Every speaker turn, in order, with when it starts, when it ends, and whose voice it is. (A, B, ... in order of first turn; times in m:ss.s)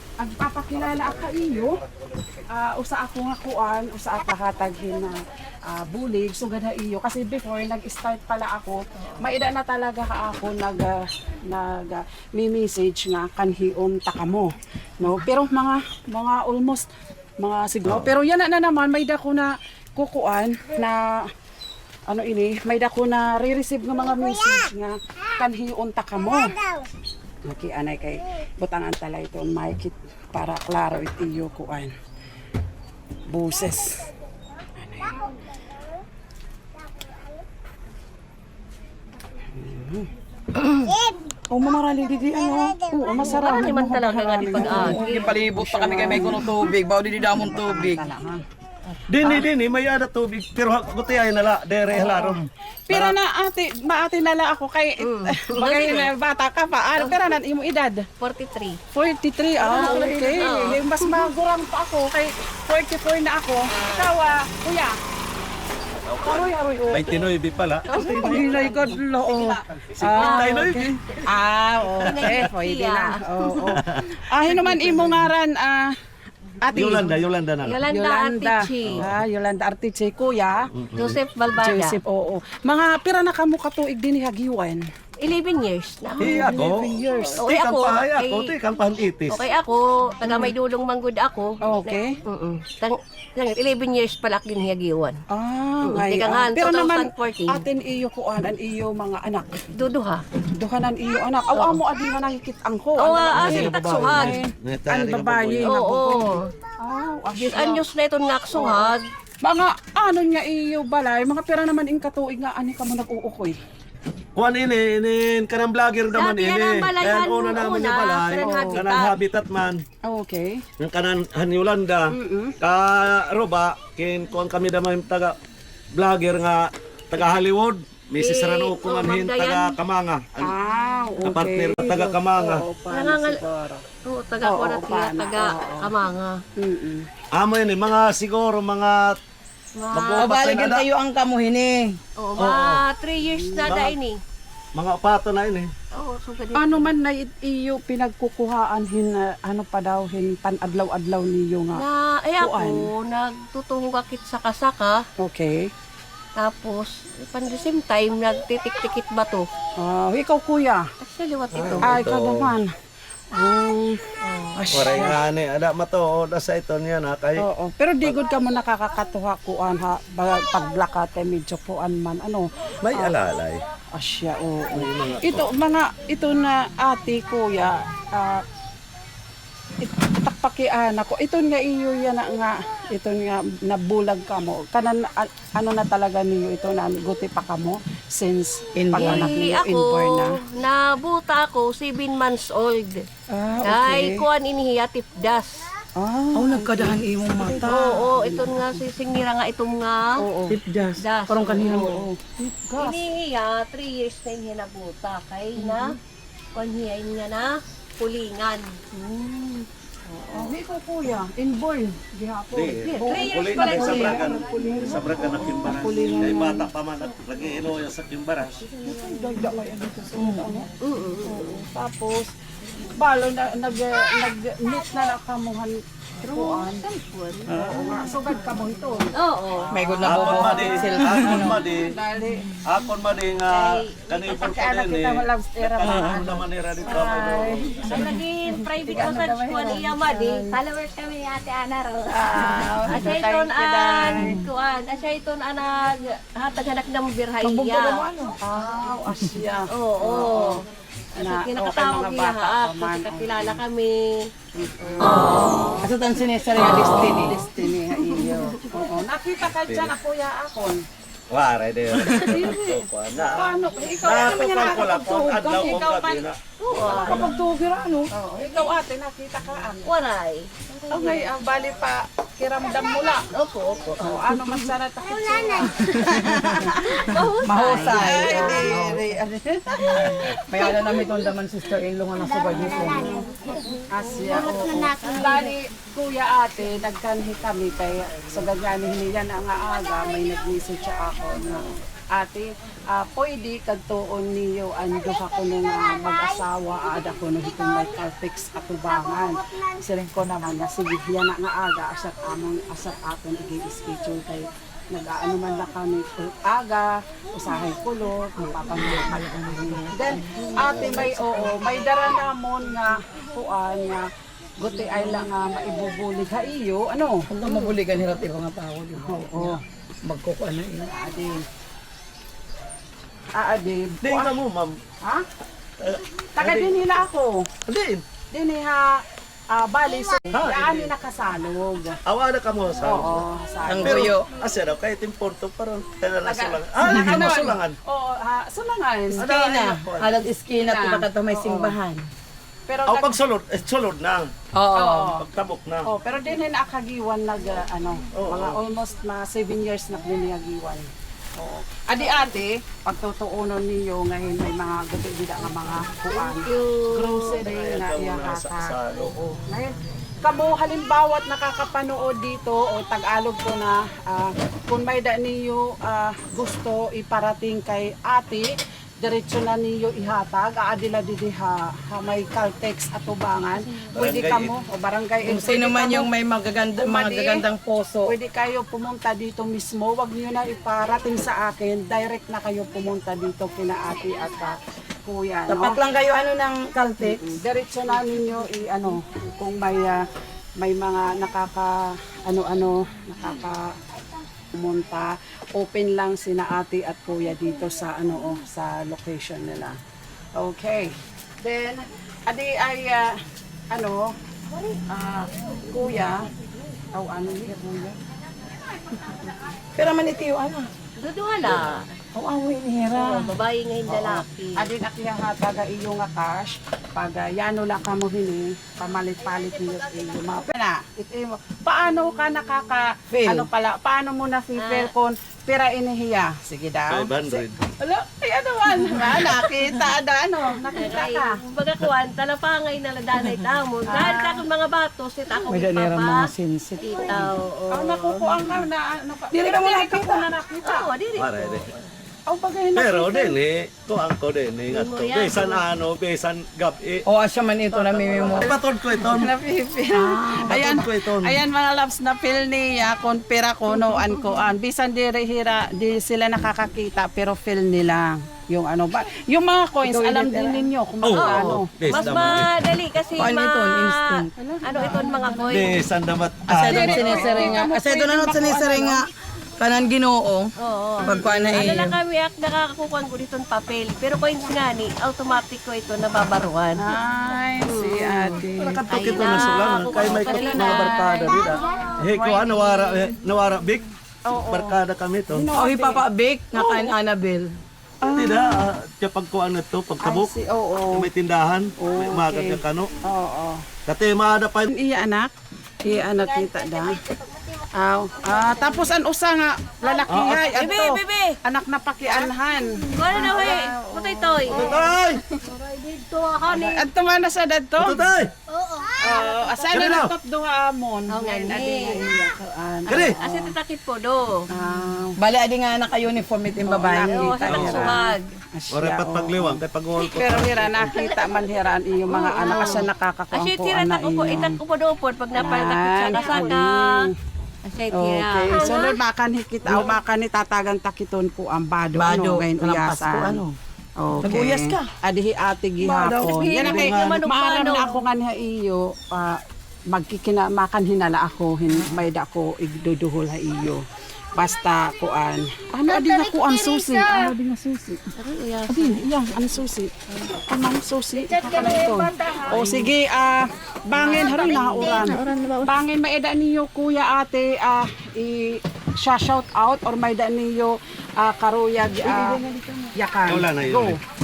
0:00.2-0:01.8 A
0:02.5-0:16.9 A
0:17.4-0:21.2 A
0:17.8-0:18.1 B
0:22.1-0:26.6 A
0:27.4-0:31.9 A
0:33.3-0:34.1 A
0:34.8-0:35.3 A
0:39.5-0:40.1 A
0:40.6-0:40.9 C
0:41.5-0:42.8 C
0:42.8-0:46.6 A
0:43.1-0:45.3 D
0:44.5-0:48.0 C
0:47.3-0:48.4 A
0:49.1-0:53.2 B
0:51.9-0:58.0 A
0:55.0-0:56.1 D
0:57.0-0:57.3 D
0:58.2-0:58.8 D
0:58.9-1:04.9 A
0:59.6-1:00.6 C
0:59.7-1:01.3 D
1:03.8-1:04.1 D
1:06.0-1:10.9 B
1:06.2-1:07.2 A
1:07.9-1:08.6 D
1:08.0-1:15.9 A
1:08.3-1:08.5 C
1:09.3-1:09.6 C
1:10.1-1:10.7 D
1:12.0-1:13.2 D
1:12.0-1:12.4 B
1:13.6-1:14.0 B
1:16.6-1:17.2 A
1:16.7-1:17.8 B
1:17.6-1:19.0 D
1:17.9-1:20.7 A
1:20.7-1:21.2 B
1:21.0-1:22.0 D
1:21.6-1:24.8 A
1:25.2-1:26.5 D
1:26.2-1:27.4 A
1:26.2-1:29.5 B
1:27.4-1:28.5 D
1:29.3-1:35.2 D
1:30.2-1:30.5 A
1:31.6-1:32.2 A
1:35.3-1:39.7 A
1:35.8-1:37.6 D
1:39.7-1:40.2 D
1:40.6-1:47.8 A
1:41.5-1:41.8 D
1:43.0-1:44.4 D
1:43.3-1:45.9 B
1:45.6-1:46.5 D
1:47.3-1:49.0 D
1:48.5-1:53.6 A
1:54.4-1:59.8 B
1:56.1-1:59.2 D
1:58.4-1:58.8 A
2:00.0-2:00.6 A
2:00.8-2:05.4 B
2:02.1-2:02.6 A
2:05.9-2:10.5 B
2:08.2-2:09.8 D
2:10.4-2:13.8 A
2:11.2-2:12.6 B
2:12.9-2:13.4 D
2:14.0-2:16.4 D
2:14.4-2:15.9 A
2:16.6-2:17.0 A
2:17.4-2:19.2 B
2:19.8-2:20.5 D
2:19.9-2:20.9 B
2:20.2-2:22.0 C
2:22.2-2:24.2 D
2:22.4-2:22.8 B
2:23.2-2:23.9 A
2:23.7-2:24.0 B
2:24.7-2:25.7 B
2:25.9-2:26.9 D
2:26.5-2:31.8 A
2:31.7-2:35.0 D
2:32.4-2:32.9 A
2:35.2-2:35.7 A
2:36.4-2:39.5 D
2:39.8-2:40.8 A
2:41.0-2:42.0 D
2:41.5-2:42.6 B
2:41.8-2:42.7 A
2:43.3-2:45.2 A
2:44.3-2:44.6 D
2:44.7-2:47.4 B
2:47.4-2:53.1 A
2:52.8-2:53.6 B
2:53.9-2:58.4 A
2:54.7-2:55.5 B
2:59.8-3:10.4 A
3:08.8-3:09.4 C
3:08.9-3:13.0 D
3:13.3-3:14.2 A
3:13.6-3:15.6 D
3:16.0-3:18.8 A
3:16.3-3:18.0 C
3:17.6-3:20.1 D
3:20.2-3:20.6 A
3:20.5-3:22.0 C
3:21.0-3:21.9 D
3:21.5-3:23.0 A
3:22.8-3:26.0 D
3:25.6-3:25.9 A
3:26.5-3:28.7 D
3:28.9-3:36.7 A
3:32.5-3:38.7 B
3:33.0-3:34.4 D
3:38.8-3:40.7 A
3:39.3-3:40.6 C
3:40.8-3:41.5 D
3:41.2-3:42.3 A
3:43.0-3:46.8 A
3:46.2-3:47.7 D
3:47.5-3:49.1 A
3:47.5-3:48.0 C
3:49.1-3:50.2 D
3:49.7-3:51.6 C
3:50.0-3:51.9 B
3:50.0-3:52.5 A
3:52.6-3:57.9 B
3:53.6-3:53.9 D
3:54.2-4:00.5 A
3:57.8-4:00.6 D
3:58.8-3:59.8 C
4:00.5-4:02.6 E
4:02.1-4:04.4 A
4:02.9-4:08.1 D
4:04.1-4:04.4 C
4:07.4-4:08.3 C
4:07.9-4:10.6 A
4:09.7-4:10.6 D
4:11.2-4:13.6 A
4:11.2-4:14.3 D
4:14.5-4:15.5 A
4:15.1-4:15.7 D
4:15.8-4:18.6 C
4:16.7-4:17.2 D
4:16.9-4:20.8 A
4:18.1-4:18.5 D
4:19.6-4:19.9 B
4:21.3-4:27.1 B
4:22.0-4:22.4 C
4:22.2-4:26.2 A
4:26.6-4:27.4 D
4:26.8-4:29.9 A
4:26.9-4:28.1 C
4:28.4-4:28.7 D
4:29.8-4:31.3 D
4:30.9-4:33.3 A
4:33.3-4:34.7 D
4:34.0-4:36.8 A
4:35.8-4:43.3 C
4:36.8-4:39.0 D
4:37.9-4:39.0 A
4:40.0-4:40.3 B
4:43.9-5:14.0 A
4:44.2-4:45.3 C
4:45.2-4:45.5 E
5:08.4-5:11.6 C
5:14.6-5:17.2 A
5:17.3-5:21.0 C
5:19.0-5:19.6 A
5:20.9-5:21.4 A
5:23.3-5:24.4 A
5:24.0-5:24.8 B
5:25.8-5:26.7 B
5:26.4-5:27.4 A
5:27.6-5:28.0 B
5:28.3-5:32.0 A
5:30.3-5:30.9 B
5:32.0-5:33.3 B
5:32.8-5:34.1 A
5:33.7-5:34.2 C
5:33.8-5:37.8 B
5:36.2-5:39.7 A
5:36.8-5:37.4 C
5:39.1-5:42.1 C
5:39.2-5:40.2 B
5:40.6-5:41.8 A
5:42.7-5:43.2 A
5:42.8-5:44.3 B
5:44.6-5:45.2 C
5:44.8-5:45.2 A
5:45.2-5:45.9 B
5:45.8-6:08.5 A
5:48.1-5:48.6 B
5:56.1-5:57.4 D
5:57.4-5:59.2 B
6:09.0-6:16.1 A
6:13.9-6:14.5 B
6:15.2-6:18.1 C
6:16.8-6:17.4 A
6:18.0-6:25.8 A
6:25.5-6:27.4 C
6:27.0-6:30.0 A
6:30.6-6:33.7 A
6:34.5-6:39.8 A
6:40.4-6:43.1 A
6:43.7-6:44.1 A
6:44.9-6:46.2 A
6:46.9-6:48.0 A
6:49.8-6:50.7 C
6:51.0-6:51.9 D
6:52.1-6:53.3 C
6:52.9-6:54.7 D
6:53.9-7:11.4 A
7:03.1-7:03.5 C
7:04.6-7:04.9 D
7:06.9-7:07.6 B
7:08.7-7:09.8 C
7:10.7-7:16.3 D
7:13.9-7:14.4 A
7:15.5-7:17.3 C
7:16.8-7:18.5 D
7:17.1-7:20.9 A
7:19.3-7:20.2 C
7:20.6-7:21.9 D
7:21.2-7:21.7 B
7:22.3-7:23.3 A
7:22.7-7:27.0 B
7:24.7-7:25.6 D
7:27.1-7:30.6 C
7:27.7-7:28.5 A
7:28.2-7:29.3 B
7:29.9-7:41.7 A
7:30.4-7:31.4 B
7:33.8-7:34.4 D
7:39.8-7:40.7 C
7:41.0-7:42.5 B
7:41.2-7:45.8 D
7:43.2-7:44.3 C
7:44.4-7:45.6 A
7:45.5-7:47.3 B
7:46.5-7:49.0 C
7:46.6-7:49.0 A
7:49.6-7:52.0 C
7:50.6-7:56.9 D
7:51.0-7:51.9 A
7:56.8-8:02.9 A
7:57.7-8:01.2 D
7:58.5-8:03.8 B
8:04.3-8:04.8 A
8:04.4-8:05.5 B
8:05.3-8:06.9 A
8:05.5-8:07.5 C
8:08.0-8:08.6 A
8:08.1-8:10.3 B
8:10.0-8:11.1 A
8:10.9-8:12.9 B
8:11.8-8:13.6 A
8:13.8-8:14.7 B
8:14.7-8:15.3 A
8:15.8-8:17.0 A
8:16.4-8:16.8 E
8:17.8-8:25.0 A
8:20.1-8:20.6 B
8:20.4-8:21.4 D
8:22.9-8:24.8 D
8:24.5-8:25.2 B
8:25.4-8:26.9 D
8:26.4-8:28.0 A
8:27.8-8:28.3 B
8:29.0-8:33.6 A
8:29.1-8:29.5 E
8:29.7-8:30.1 B
8:31.1-8:32.2 D
8:32.9-8:33.2 B
8:32.9-8:34.4 D
8:34.5-8:35.2 A
8:35.2-8:37.4 C
8:36.6-8:44.6 A
8:37.1-8:38.3 D
8:37.5-8:38.0 B
8:38.7-8:41.0 B
8:40.8-8:47.0 D
8:45.3-8:47.1 A
8:47.6-8:49.0 D
8:47.9-8:53.4 A
8:51.9-8:53.6 C
8:54.0-9:03.8 A
8:54.2-8:54.9 C
8:55.8-8:57.2 B
8:56.2-8:58.0 D
9:04.3-9:08.2 A
9:08.2-9:09.1 D
9:08.7-9:22.4 A
9:11.3-9:12.5 E
9:12.5-9:12.9 C
9:14.0-9:15.4 D
9:22.0-9:22.9 C
9:22.9-9:24.0 A
9:23.3-9:24.0 B